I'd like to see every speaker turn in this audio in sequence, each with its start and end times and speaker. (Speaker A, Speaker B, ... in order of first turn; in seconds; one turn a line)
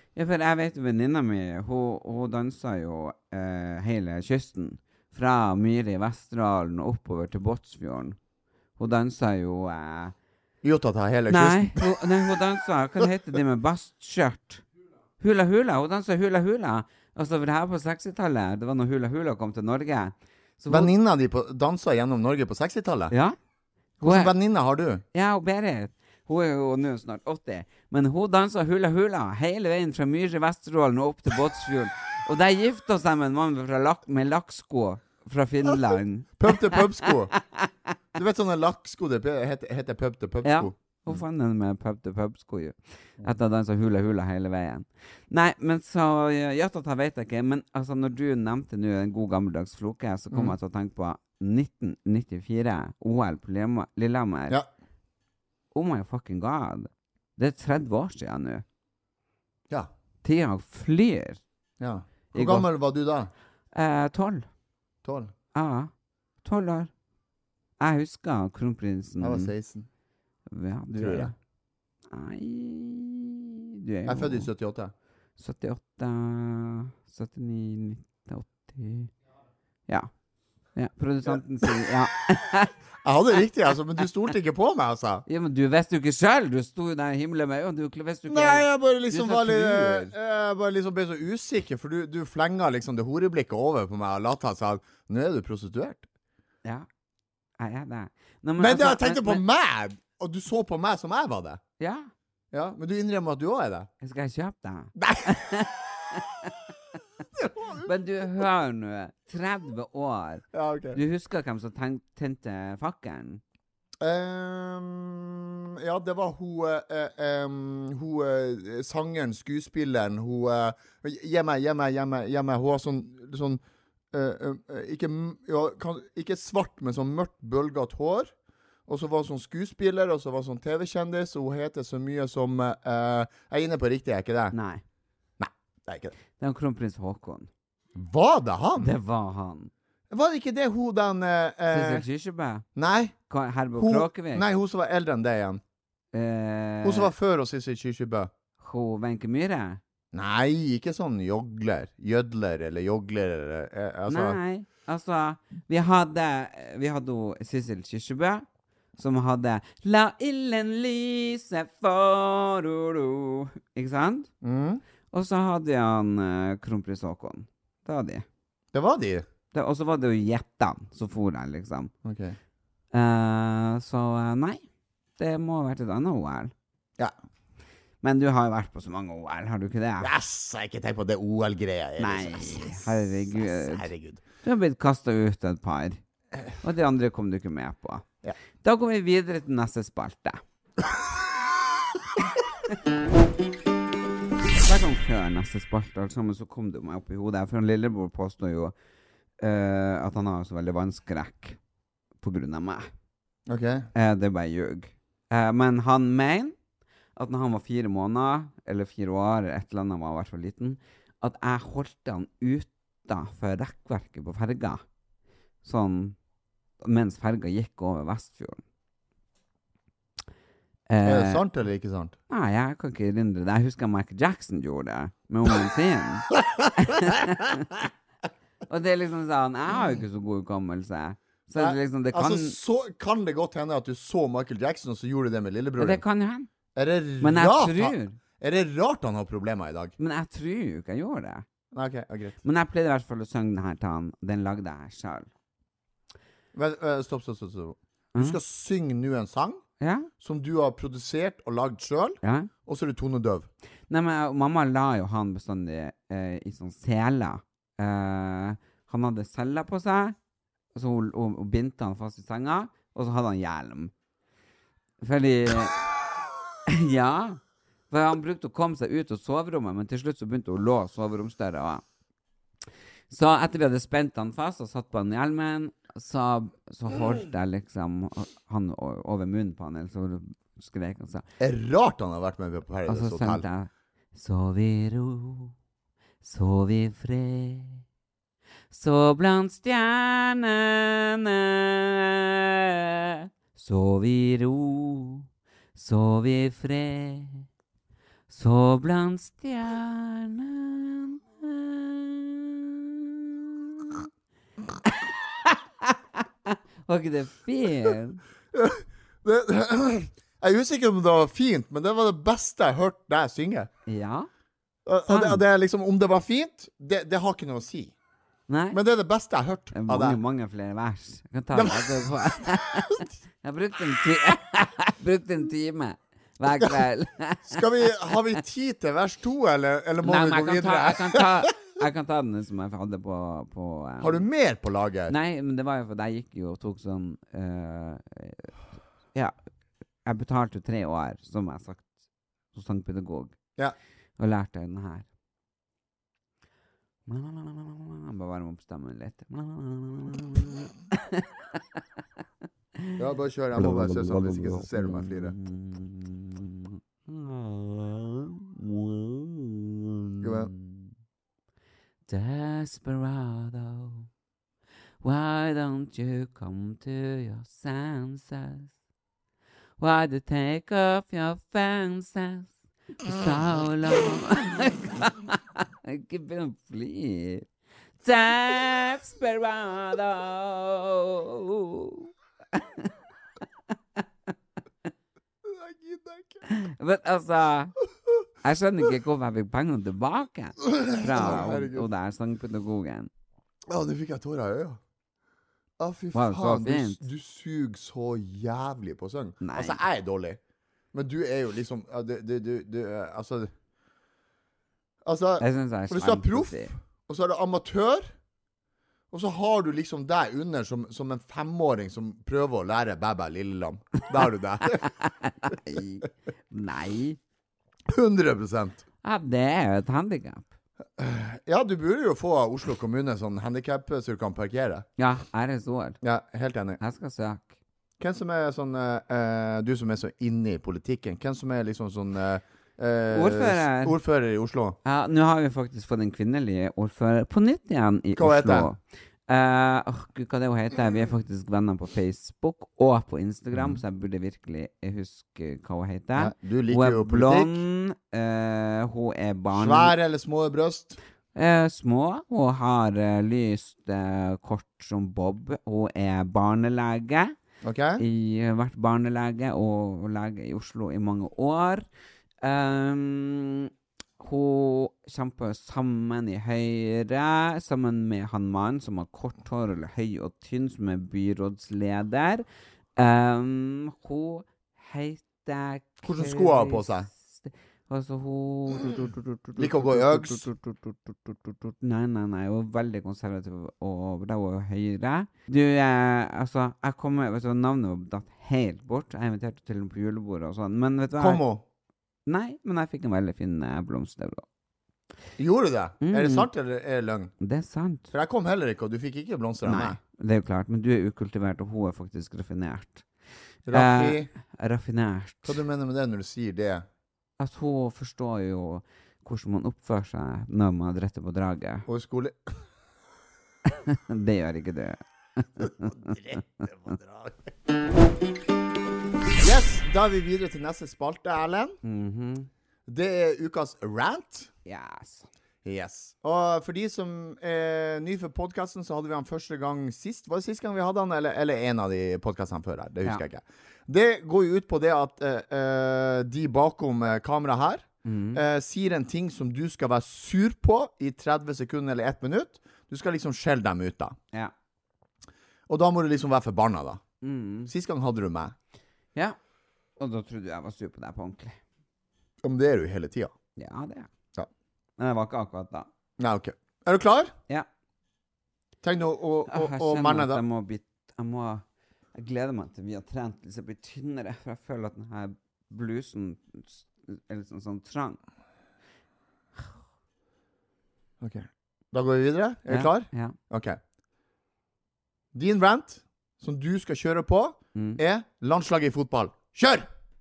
Speaker A: 0.1-8.2
Speaker A: 8.8-10.2
Speaker B: 10.6-12.0
Speaker A: 11.3-14.6
Speaker A: 15.2-20.9
Speaker B: 20.7-23.1
Speaker A: 23.1-23.4
Speaker B: 24.0-25.0
Speaker A: 24.0-24.3
Speaker A: 25.1-37.7
Speaker B: 36.4-37.3
Speaker B: 38.1-41.2
Speaker A: 40.5-54.6
Speaker A: 55.7-58.6
Speaker A: 60.2-61.4
Speaker B: 61.8-63.3
Speaker A: 62.3-62.7
Speaker A: 63.7-64.5
Speaker B: 65.0-65.3
Speaker A: 65.5-65.9
Speaker A: 66.4-66.9
Speaker A: 67.8-69.5
Speaker B: 69.2-69.9
Speaker A: 70.5-71.3
Speaker B: 71.0-71.3
Speaker A: 72.1-74.5
Speaker B: 74.1-74.9
Speaker A: 75.4-79.1
Speaker A: 80.8-82.7
Speaker B: 81.3-81.9
Speaker B: 83.0-85.2
Speaker A: 85.3-90.1
Speaker B: 88.3-96.1
Speaker A: 97.6-99.4
Speaker B: 98.6-101.6
Speaker A: 101.8-102.1
Speaker B: 102.5-103.9
Speaker A: 104.0-106.6
Speaker B: 105.0-105.8
Speaker B: 107.3-107.9
Speaker A: 107.8-113.4
Speaker B: 110.5-111.0
Speaker B: 114.0-123.6
Speaker B: 124.1-128.3
Speaker B: 128.9-134.6
Speaker A: 134.5-134.8
Speaker B: 135.4-136.1
Speaker A: 136.4-137.5
Speaker B: 137.9-138.9
Speaker A: 138.8-139.7
Speaker B: 140.1-142.1
Speaker A: 141.7-142.7
Speaker B: 142.8-143.1
Speaker A: 143.3-144.4
Speaker B: 143.8-145.6
Speaker A: 146.1-147.1
Speaker B: 146.8-148.3
Speaker A: 148.6-149.8
Speaker B: 150.1-154.4
Speaker A: 154.1-158.4
Speaker A: 159.0-164.3
Speaker B: 164.4-164.8
Speaker A: 165.1-168.3
Speaker B: 168.7-169.3
Speaker A: 169.5-171.9
Speaker B: 172.0-172.4
Speaker A: 172.9-174.6
Speaker A: 175.2-176.5
Speaker A: 178.0-180.1
Speaker B: 180.0-184.2
Speaker A: 182.0-183.9
Speaker A: 184.4-186.0
Speaker A: 186.6-188.1
Speaker A: 188.6-190.4
Speaker A: 194.6-198.8
Speaker A: 199.4-201.6
Speaker A: 202.2-202.9
Speaker B: 203.5-203.9
Speaker A: 203.9-206.6
Speaker A: 207.2-214.8
Speaker A: 215.6-216.2
Speaker A: 216.8-218.6
Speaker A: 220.9-221.4
Speaker B: 221.0-222.2
Speaker A: 222.3-227.9
Speaker B: 226.4-227.1
Speaker A: 228.7-232.6
Speaker B: 231.6-236.0
Speaker A: 235.8-236.5
Speaker B: 236.8-239.9
Speaker A: 237.2-238.2
Speaker A: 240.0-241.4
Speaker B: 241.7-242.4
Speaker A: 242.4-245.3
Speaker B: 246.5-249.6
Speaker A: 249.8-250.1
Speaker B: 250.2-253.5
Speaker A: 252.2-252.5
Speaker A: 253.9-260.2
Speaker A: 260.8-263.9
Speaker A: 265.0-265.8
Speaker A: 266.7-271.8
Speaker A: 273.1-281.2
Speaker B: 281.4-283.4
Speaker A: 282.9-285.5
Speaker A: 286.2-287.8
Speaker A: 288.7-297.5
Speaker A: 298.3-304.1
Speaker A: 304.9-308.2
Speaker B: 308.5-313.7
Speaker A: 313.9-314.3
Speaker B: 314.9-317.9
Speaker A: 315.1-315.4
Speaker A: 318.5-318.8
Speaker B: 318.7-320.2
Speaker A: 319.7-328.1
Speaker B: 321.5-323.1
Speaker B: 327.5-331.6
Speaker A: 330.0-334.2
Speaker B: 334.0-335.1
Speaker A: 335.1-338.5
Speaker A: 340.1-341.9
Speaker A: 342.5-343.4
Speaker A: 344.2-345.1
Speaker A: 347.1-351.8
Speaker B: 353.0-355.4
Speaker A: 353.6-360.9
Speaker B: 360.2-360.5
Speaker A: 362.1-364.1
Speaker A: 365.0-368.7
Speaker A: 369.8-377.5
Speaker A: 378.0-382.9
Speaker B: 385.4-386.4
Speaker A: 386.5-387.7
Speaker A: 388.4-393.1
Speaker B: 390.6-391.9
Speaker B: 393.7-394.8
Speaker B: 395.8-400.4
Speaker A: 396.1-397.0
Speaker A: 399.4-399.8
Speaker B: 400.9-403.5
Speaker B: 405.0-408.1
Speaker A: 405.4-406.7
Speaker B: 409.1-414.9
Speaker A: 414.8-417.2
Speaker B: 417.9-418.8
Speaker A: 419.0-420.5
Speaker B: 421.0-424.9
Speaker A: 425.0-426.0
Speaker B: 426.0-426.8
Speaker A: 426.8-427.5
Speaker B: 428.0-434.8
Speaker A: 433.1-434.0
Speaker A: 434.9-449.9
Speaker B: 438.2-438.7
Speaker B: 443.5-443.8
Speaker B: 446.2-447.6
Speaker B: 449.5-451.0
Speaker A: 451.4-457.3
Speaker B: 457.6-458.0
Speaker A: 458.0-461.9
Speaker A: 462.4-472.4
Speaker A: 473.0-491.4
Speaker B: 476.0-477.1
Speaker B: 479.6-480.5
Speaker B: 491.2-491.6
Speaker A: 492.3-494.4
Speaker B: 495.4-497.3
Speaker A: 496.0-496.5
Speaker A: 497.4-498.1
Speaker B: 498.1-500.0
Speaker A: 499.7-503.1
Speaker B: 503.7-504.3
Speaker A: 503.7-505.6
Speaker B: 505.4-506.9
Speaker A: 507.4-511.9
Speaker B: 511.9-512.6
Speaker A: 513.7-516.7
Speaker B: 515.6-517.5
Speaker B: 519.4-521.8
Speaker A: 521.8-522.5
Speaker B: 522.9-524.5
Speaker A: 524.6-525.3
Speaker B: 525.6-544.2
Speaker A: 538.0-538.4
Speaker B: 545.7-547.0
Speaker A: 547.2-547.7
Speaker B: 547.7-548.5
Speaker A: 550.0-551.6
Speaker B: 552.4-553.3
Speaker A: 553.6-554.1
Speaker A: 555.0-555.9
Speaker B: 556.2-557.4
Speaker B: 558.8-560.4
Speaker A: 559.5-561.6
Speaker A: 562.1-568.2
Speaker B: 571.2-573.8
Speaker A: 572.7-573.4
Speaker B: 575.3-579.9
Speaker A: 577.8-578.0